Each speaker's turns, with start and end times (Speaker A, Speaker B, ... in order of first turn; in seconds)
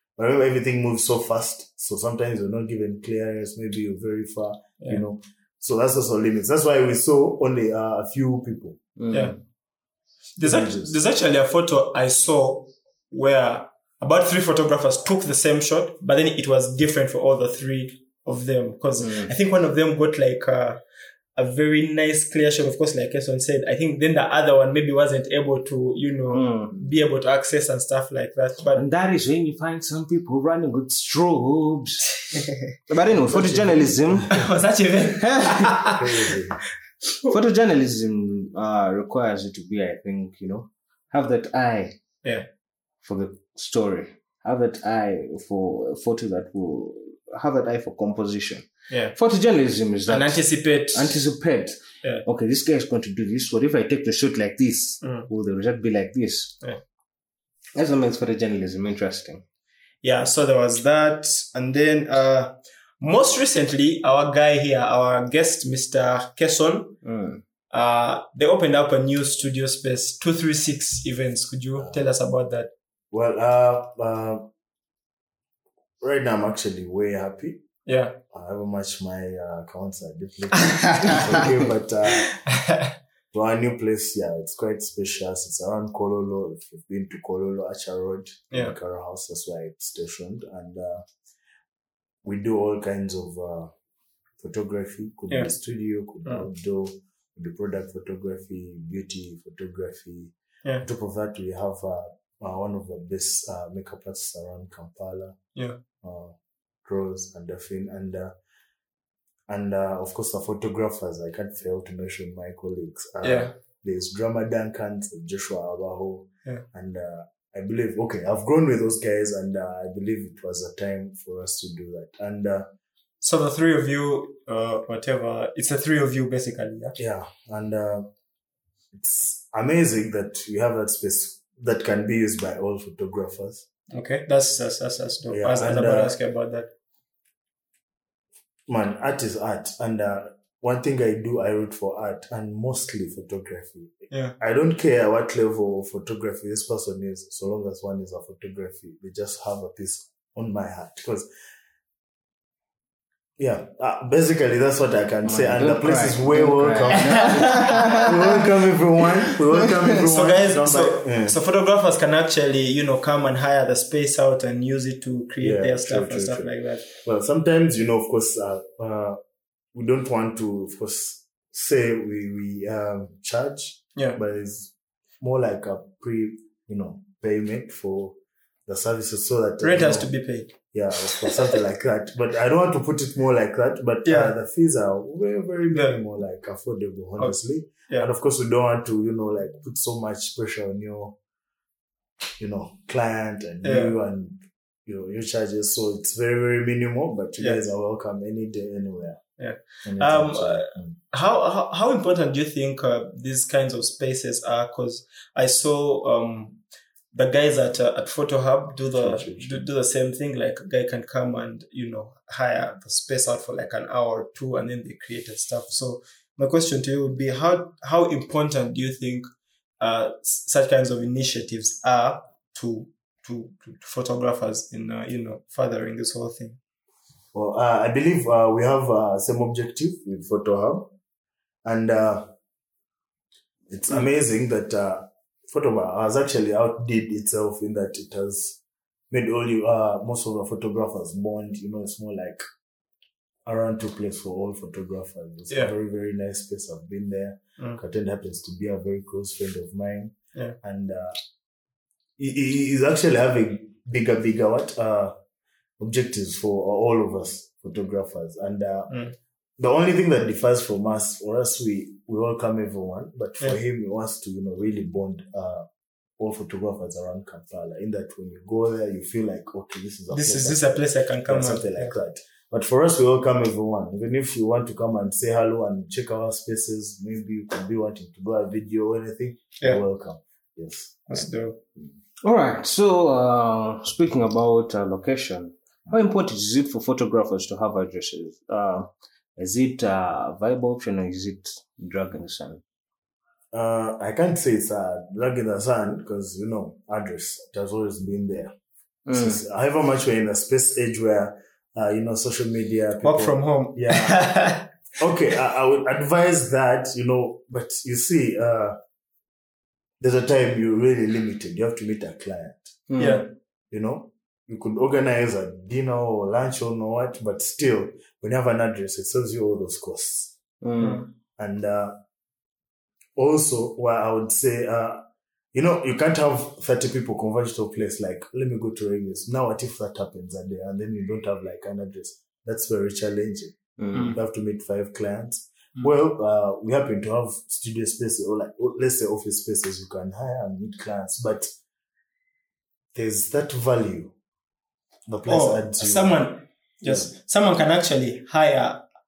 Speaker A: 0.2-8.8, 10.4-11.0, 33.1-34.2, 35.9-36.6, 71.8-72.0, 73.1-74.5, 76.0-77.6, 78.3-82.3, 83.3-91.0, 92.2-93.7, 94.4-105.4, 106.0-108.3, 109.5-122.7, 127.0-128.1, 128.9-133.7, 135.3-136.1, 138.7-151.3, 153.4-161.4, 165.4-169.2, 169.7-180.1, 180.7-191.2, 192.4-199.2, 199.8-200.9, 208.9-209.6, 227.3-230.9, 231.6-232.3, 233.7-238.6, 239.1-242.4, 243.4-251.2, 252.2-255.1, 255.8-258.9, 259.6-265.6, 266.2-281.9, 293.5-298.5, 299.1-304.2, 305.0-308.8, 310.0-312.8, 313.7-320.4, 321.4-322.0, 323.2-341.5, 342.9-344.1, 345.1-346.2, 346.8-347.1
Speaker B: 9.0-9.4, 19.0-19.3, 26.3-26.9, 28.7-32.1, 32.9-34.5, 35.1-36.0, 37.2-42.0, 43.0-56.5, 57.7-59.4, 67.0-67.4, 155.2-158.4, 282.2-292.6, 299.1-299.4, 312.9-313.2, 320.6-321.0, 333.8-334.2
Speaker C: 9.1-9.3, 10.4-20.8, 21.4-28.8, 34.3-36.3, 48.9-49.1, 50.1-51.3, 55.0-55.3, 60.0-67.0, 67.7-72.7, 77.8-78.2, 80.7-81.5, 82.1-82.9, 113.2-113.5, 123.2-127.0, 133.9-136.7, 157.0-158.1, 159.9-166.9, 179.6-180.6, 181.1-181.6, 184.1-184.3, 185.7-186.0, 193.6-193.9, 199.4-206.6, 207.1-219.2, 219.8-226.6, 258.9-259.1, 270.1-271.9, 281.1-281.6, 303.0-304.7, 313.0-313.3, 320.8-321.1, 345.3-348.8